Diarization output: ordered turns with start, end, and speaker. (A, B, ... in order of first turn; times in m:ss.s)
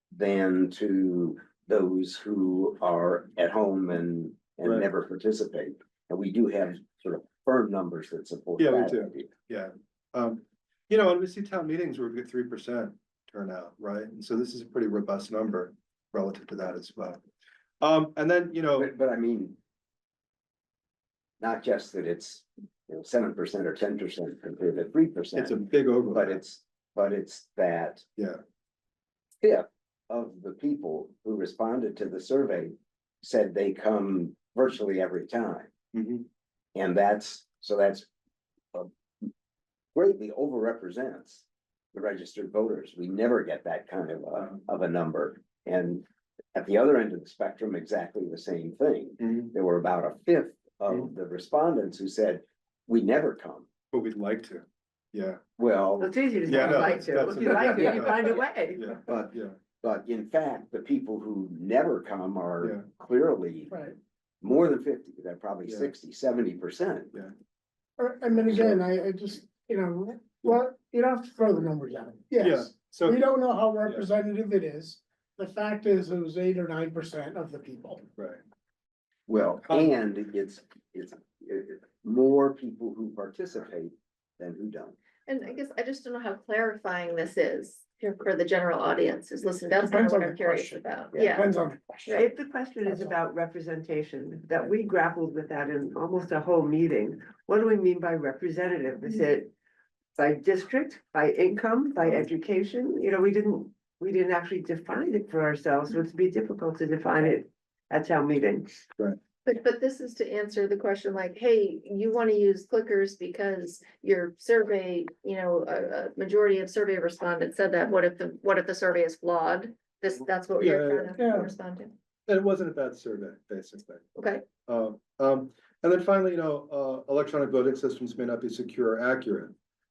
0:00.1-0:09.3 A
0:08.6-0:17.2 B
0:17.8-0:18.9 B
0:18.8-0:19.6 A
0:21.4-0:25.6 A
0:25.4-0:26.4 B
0:26.1-0:28.0 A
0:29.4-0:35.7 A
0:35.9-0:36.2 B
0:36.7-0:38.1 A
0:38.7-0:39.3 A
0:39.9-0:53.7 A
0:49.2-0:49.5 B
0:53.9-0:55.4 B
0:55.6-0:57.0 A
0:56.0-0:58.9 C
0:56.4-0:59.5 B
0:59.1-1:03.7 A
1:04.4-1:07.1 A
1:05.7-1:05.9 B
1:08.0-1:18.0 D
1:12.4-1:13.2 B
1:19.3-1:25.0 A
1:19.7-1:19.9 B
1:25.2-1:31.4 E
1:29.8-1:30.8 D
1:31.1-1:31.4 A
1:31.3-1:32.2 D
1:32.1-1:39.5 C
1:32.8-1:33.1 D
1:40.2-1:48.7 C
1:49.4-2:01.9 E
2:00.6-2:01.3 B
2:01.2-2:01.5 D
2:02.3-2:04.0 B
2:04.1-2:04.5 E
2:04.6-2:09.5 B